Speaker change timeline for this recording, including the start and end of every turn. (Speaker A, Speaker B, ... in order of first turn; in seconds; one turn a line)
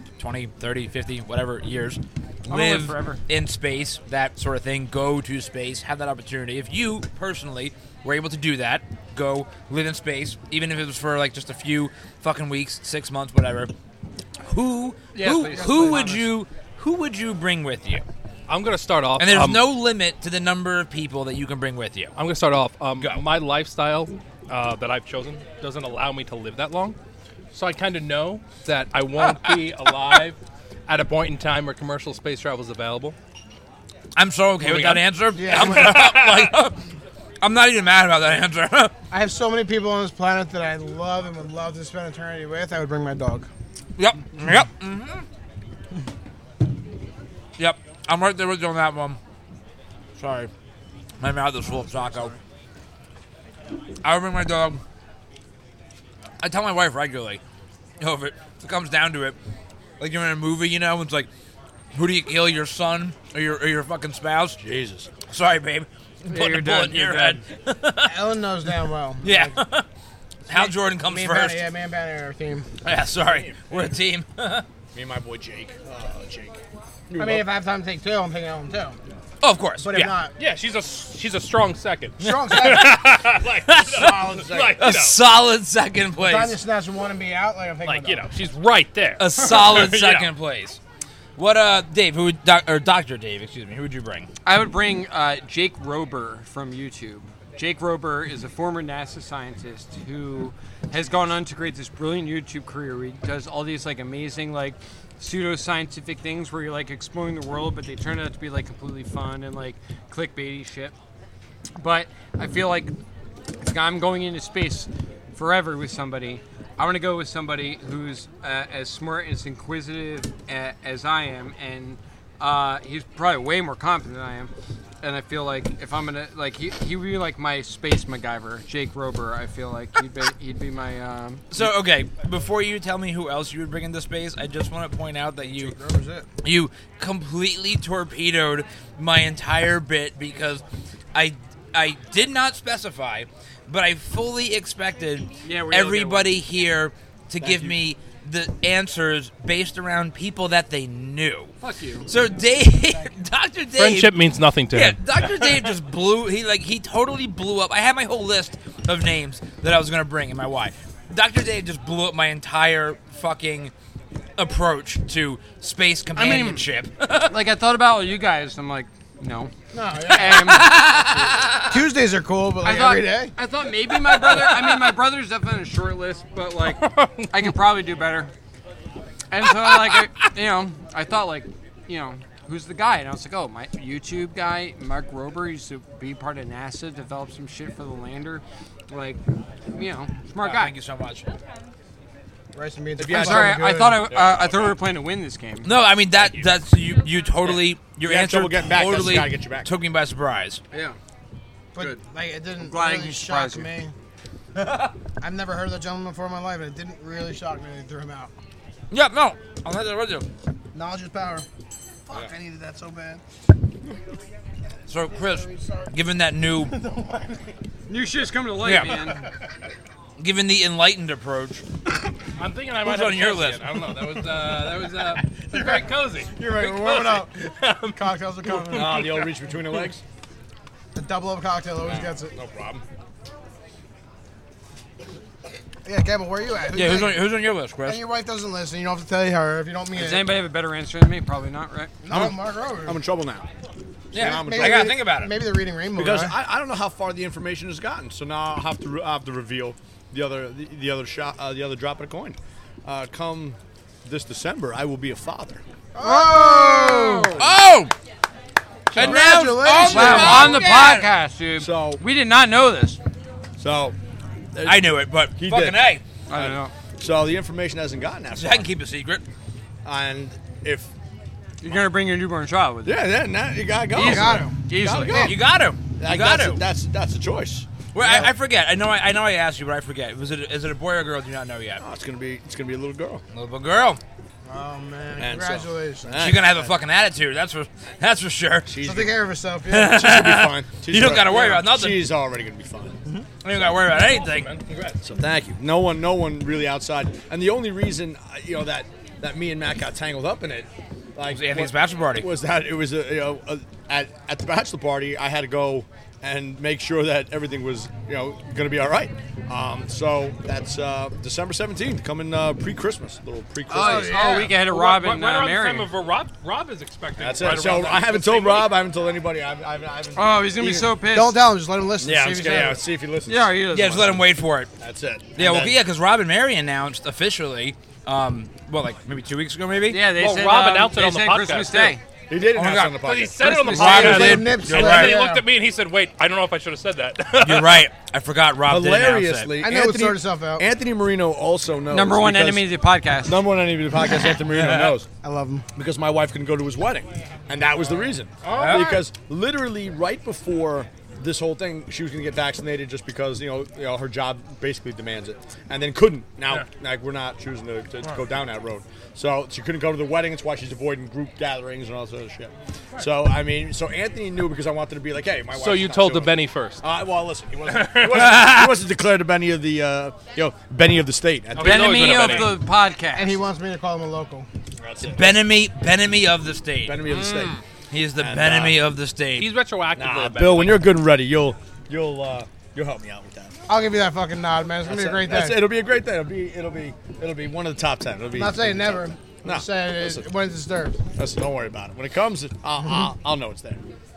Speaker A: 0.2-13.7
Speaker B: 2.5-3.2
Speaker A: 14.5-18.0
Speaker B: 15.1-16.2
Speaker C: 15.2-15.8
Speaker C: 18.5-19.6
Speaker A: 19.2-22.1
Speaker C: 22.1-27.0
Speaker C: 27.5-33.1
Speaker A: 34.1-36.8
Speaker C: 34.6-36.5
Speaker D: 35.4-36.1
Speaker A: 37.4-38.9
Speaker D: 39.1-43.5
Speaker A: 44.0-45.2
Speaker A: 47.6-49.2
Speaker A: 50.2-50.5
Speaker A: 51.2-52.3
Speaker A: 54.0-54.8
Speaker A: 56.4-57.4
Speaker A: 58.0-59.4
Speaker A: 60.0-61.3
Speaker A: 61.9-64.6
Speaker E: 64.6-65.1
Speaker A: 65.3-68.2
Speaker B: 66.3-67.4
Speaker D: 68.0-69.6
Speaker A: 69.2-69.8
Speaker A: 70.5-71.6
Speaker D: 70.5-72.7
Speaker A: 72.8-74.6
Speaker E: 73.2-73.6
Speaker E: 74.9-77.4
Speaker D: 77.2-79.0
Speaker A: 79.4-80.1
Speaker D: 79.8-80.3
Speaker C: 80.4-85.2
Speaker D: 82.2-83.0
Speaker A: 82.3-84.2
Speaker E: 83.2-84.8
Speaker A: 84.8-86.5
Speaker D: 86.2-88.3
Speaker C: 87.8-90.3
Speaker A: 89.2-90.8
Speaker A: 91.4-94.3
Speaker B: 94.5-110.9
Speaker B: 111.8-112.9
Speaker B: 113.6-124.5
Speaker B: 125.0-131.7
Speaker A: 131.5-135.7
Speaker D: 135.6-136.3
Speaker A: 136.4-151.5
Speaker B: 145.4-146.3
Speaker E: 147.4-147.8
Speaker B: 151.6-152.1
Speaker A: 152.1-154.1
Speaker C: 153.8-155.0
Speaker A: 154.7-163.7
Speaker A: 164.4-167.3
Speaker B: 166.2-166.7
Speaker B: 167.2-169.5
Speaker D: 169.7-170.8
Speaker B: 170.0-170.9
Speaker A: 170.1-171.8
Speaker D: 171.7-173.3
Speaker B: 172.6-178.3
Speaker A: 174.3-174.5
Speaker C: 176.6-177.6
Speaker B: 179.3-189.2
Speaker A: 179.6-179.9
Speaker B: 189.7-190.7
Speaker A: 190.4-191.4
Speaker D: 192.5-194.1
Speaker E: 193.0-194.8
Speaker B: 193.1-195.7
Speaker A: 195.6-200.6
Speaker E: 196.2-196.5
Speaker E: 198.1-199.7
Speaker B: 200.7-201.0
Speaker D: 201.7-203.9
Speaker B: 202.6-203.7
Speaker D: 205.2-208.3
Speaker A: 208.9-210.2
Speaker D: 210.7-211.4
Speaker D: 212.1-213.2
Speaker A: 214.9-216.7
Speaker D: 215.4-215.8
Speaker D: 216.7-217.5
Speaker B: 217.9-219.3
Speaker A: 218.6-218.9
Speaker A: 220.2-221.6
Speaker C: 222.4-228.0
Speaker A: 222.8-224.4
Speaker D: 226.3-229.2
Speaker C: 228.5-228.9
Speaker E: 228.7-230.0
Speaker D: 230.9-232.3
Speaker E: 231.8-232.8
Speaker D: 235.8-237.3
Speaker A: 236.7-238.0
Speaker D: 237.8-240.4
Speaker B: 239.9-241.9
Speaker D: 242.0-243.0
Speaker E: 242.1-243.5
Speaker E: 244.1-244.9
Speaker A: 244.1-245.3
Speaker D: 244.1-246.3
Speaker E: 245.9-255.6
Speaker D: 255.9-257.4
Speaker B: 256.0-257.5
Speaker A: 257.4-257.9
Speaker A: 258.9-261.1
Speaker D: 258.9-260.6
Speaker B: 259.8-263.0
Speaker E: 260.1-260.5
Speaker E: 261.6-262.0
Speaker E: 263.6-264.0
Speaker E: 264.5-265.8
Speaker A: 264.6-266.0
Speaker B: 266.3-266.7
Speaker E: 266.3-268.7
Speaker A: 268.4-269.2
Speaker E: 269.8-270.9
Speaker B: 271.6-273.1
Speaker E: 272.8-275.4
Speaker B: 273.9-275.3
Speaker D: 273.9-275.3
Speaker A: 275.1-276.6
Speaker E: 276.0-277.7
Speaker A: 277.9-281.8
Speaker D: 278.0-278.3
Speaker E: 281.8-283.2
Speaker A: 283.3-284.0
Speaker D: 284.4-286.3
Speaker E: 285.2-286.7
Speaker A: 286.2-288.7
Speaker E: 288.6-289.1
Speaker D: 288.8-290.0
Speaker A: 289.7-292.1
Speaker E: 289.8-293.0
Speaker A: 293.1-294.5
Speaker C: 293.9-294.6
Speaker E: 294.6-314.3
Speaker A: 301.3-302.3
Speaker D: 313.7-314.4
Speaker B: 313.7-315.9
Speaker C: 313.7-318.8
Speaker E: 317.1-320.9
Speaker B: 320.1-321.4
Speaker D: 320.6-322.8
Speaker E: 322.0-323.6
Speaker B: 323.2-324.2
Speaker A: 323.7-324.7
Speaker E: 324.8-325.8
Speaker A: 325.4-330.0
Speaker B: 329.9-332.0
Speaker C: 330.0-332.0
Speaker E: 332.3-334.5
Speaker A: 332.4-335.2
Speaker C: 333.0-337.9
Speaker D: 333.7-335.4
Speaker A: 337.4-339.5
Speaker E: 338.7-342.7
Speaker D: 339.6-340.6
Speaker B: 341.9-343.5
Speaker E: 343.2-345.1
Speaker A: 344.5-344.9
Speaker D: 345.2-345.6
Speaker E: 345.7-372.5
Speaker C: 348.4-349.0
Speaker A: 348.5-349.0
Speaker C: 365.5-366.8
Speaker C: 367.7-368.1
Speaker A: 368.1-368.8
Speaker C: 371.5-372.6
Speaker B: 371.6-373.4
Speaker D: 373.1-374.5
Speaker E: 374.8-375.3
Speaker A: 375.1-377.1
Speaker E: 376.8-377.6
Speaker B: 377.0-377.6
Speaker A: 377.9-379.5
Speaker E: 378.2-378.8
Speaker C: 379.4-380.9
Speaker E: 379.9-383.5
Speaker D: 383.7-385.7
Speaker E: 384.9-390.2
Speaker D: 388.3-391.0
Speaker E: 391.1-393.8